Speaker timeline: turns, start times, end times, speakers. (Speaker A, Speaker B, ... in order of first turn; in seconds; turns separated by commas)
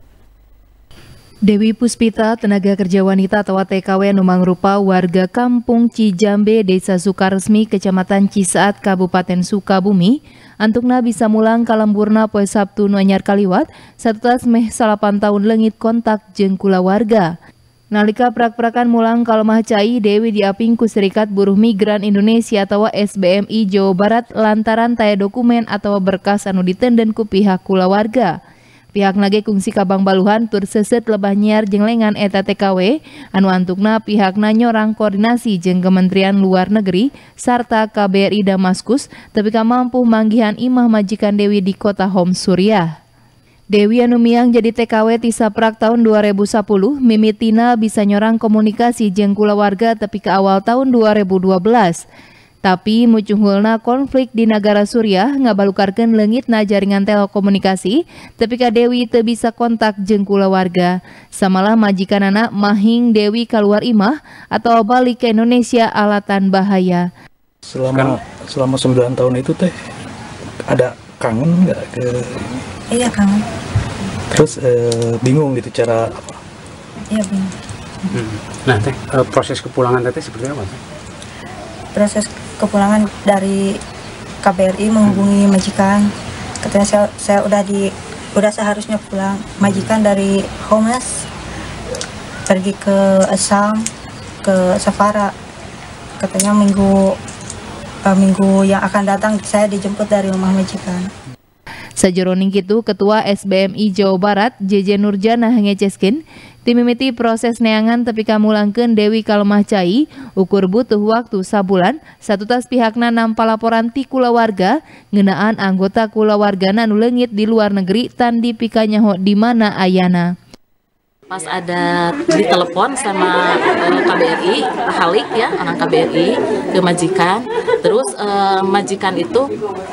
Speaker A: 1.5-17.3, Speaker A: 17.9-28.4, Speaker A: 28.9-42.9, Speaker A: 43.7-52.0, Speaker A: 52.6-67.1, Speaker B: 67.6-69.8, Speaker C: 67.9-68.2, Speaker B: 70.7-72.6, Speaker D: 72.9-73.5, Speaker B: 74.3-76.4, Speaker D: 77.1-77.5, Speaker C: 78.1-80.8, Speaker D: 81.9-83.8, Speaker D: 84.4-86.1, Speaker D: 86.6-91.3, Speaker D: 92.5-93.9, Speaker D: 94.4-95.3, Speaker D: 96.2-97.2, Speaker D: 98.1-101.1, Speaker A: 102.0-120.3, Speaker E: 121.3-129.5